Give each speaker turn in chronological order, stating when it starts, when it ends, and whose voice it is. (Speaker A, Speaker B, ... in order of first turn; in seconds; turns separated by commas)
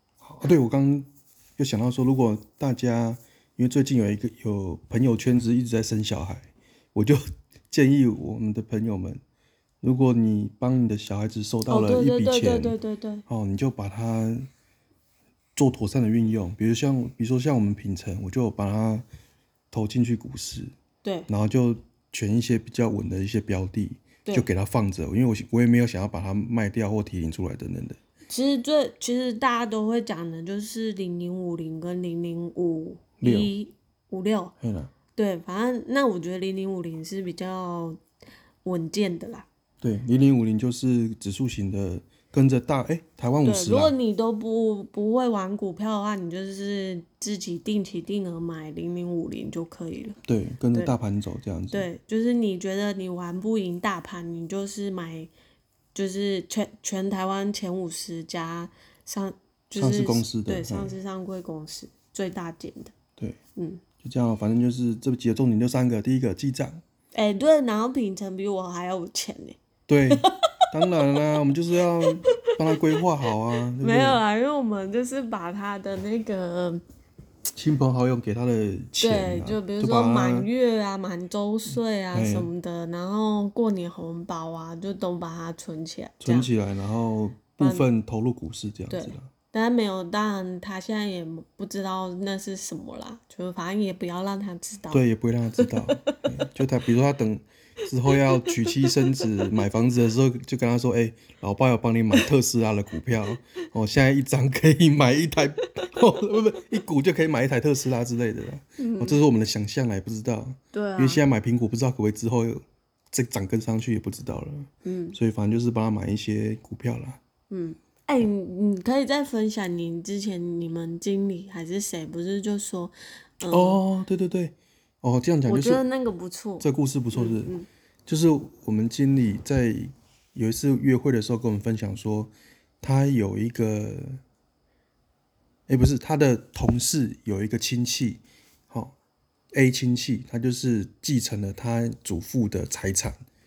Speaker A: 0.2-9.2, Speaker A: 9.8-12.8, Speaker B: 11.7-13.2, Speaker A: 13.3-14.5, Speaker A: 15.6-19.1, Speaker A: 19.7-20.7, Speaker B: 21.0-21.3, Speaker A: 21.3-28.0, Speaker B: 28.3-34.5, Speaker A: 33.2-33.5, Speaker A: 34.6-34.9, Speaker B: 35.1-38.0, Speaker B: 38.6-39.5, Speaker A: 39.8-44.0, Speaker B: 43.4-50.1, Speaker A: 50.2-51.9, Speaker B: 51.7-55.3, Speaker B: 55.9-62.9, Speaker A: 59.8-60.9, Speaker B: 63.6-63.8, Speaker A: 64.0-66.8, Speaker B: 67.1-71.3, Speaker A: 69.9-74.2, Speaker B: 72.2-72.8, Speaker B: 73.8-76.8, Speaker A: 77.6-80.5, Speaker B: 79.0-86.5, Speaker A: 81.7-82.5, Speaker A: 86.2-89.3, Speaker B: 87.6-87.9, Speaker B: 88.9-95.0, Speaker A: 94.9-117.2, Speaker B: 95.6-96.4, Speaker B: 98.1-99.6, Speaker B: 108.8-109.2, Speaker B: 110.7-111.2, Speaker B: 114.8-115.2, Speaker B: 117.5-123.8, Speaker A: 123.5-125.8, Speaker B: 125.5-127.7, Speaker A: 126.6-127.5, Speaker A: 128.1-134.2, Speaker A: 135.7-138.9, Speaker A: 139.5-143.2